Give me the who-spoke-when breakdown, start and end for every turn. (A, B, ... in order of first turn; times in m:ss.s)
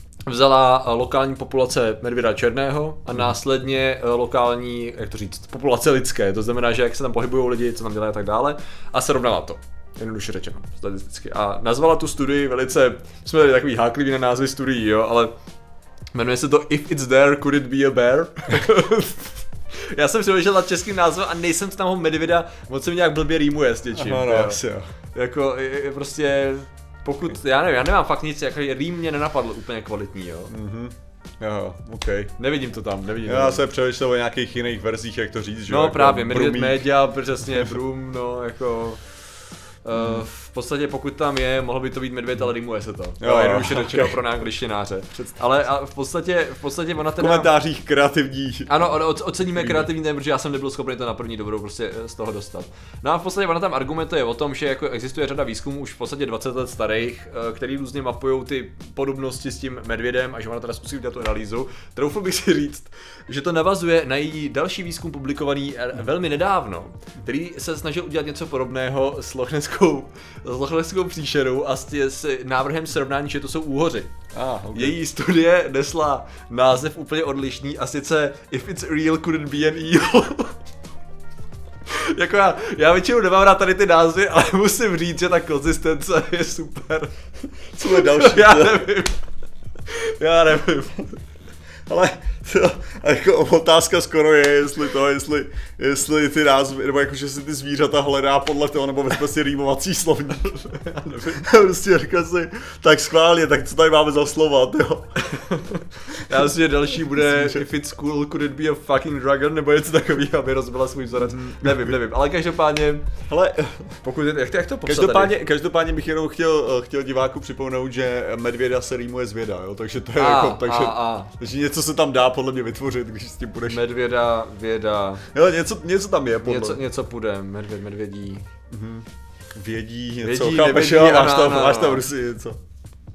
0:00.3-0:15.3 A
0:16.1-0:24.6 A
0:23.9-0:24.9 B
0:25.1-0:30.5 A
0:30.5-0:32.3 B
0:32.4-0:33.6 A
0:33.2-0:36.9 B
0:35.7-0:39.0 A
0:37.5-0:37.8 B
0:39.8-0:47.5 A
0:40.0-0:40.2 B
0:43.2-0:44.2 B
0:47.2-0:48.8 B
0:48.7-1:14.1 A
0:49.6-0:49.9 B
1:14.3-1:15.0 B
1:14.7-1:20.6 A
1:21.9-1:27.2 A
1:27.7-1:28.9 B
1:27.8-1:29.2 A
1:29.9-1:31.2 A
1:31.9-1:45.2 B
1:40.8-1:41.4 A
1:45.2-1:53.1 A
1:46.2-1:47.7 B
1:51.3-1:51.7 B
1:53.3-1:54.0 B
1:54.0-1:55.3 A
1:54.9-2:03.8 B
2:00.2-2:01.3 A
2:03.6-2:05.2 A
2:05.3-2:06.8 B
2:06.4-2:08.5 A
2:08.7-2:12.6 B
2:10.2-2:12.0 A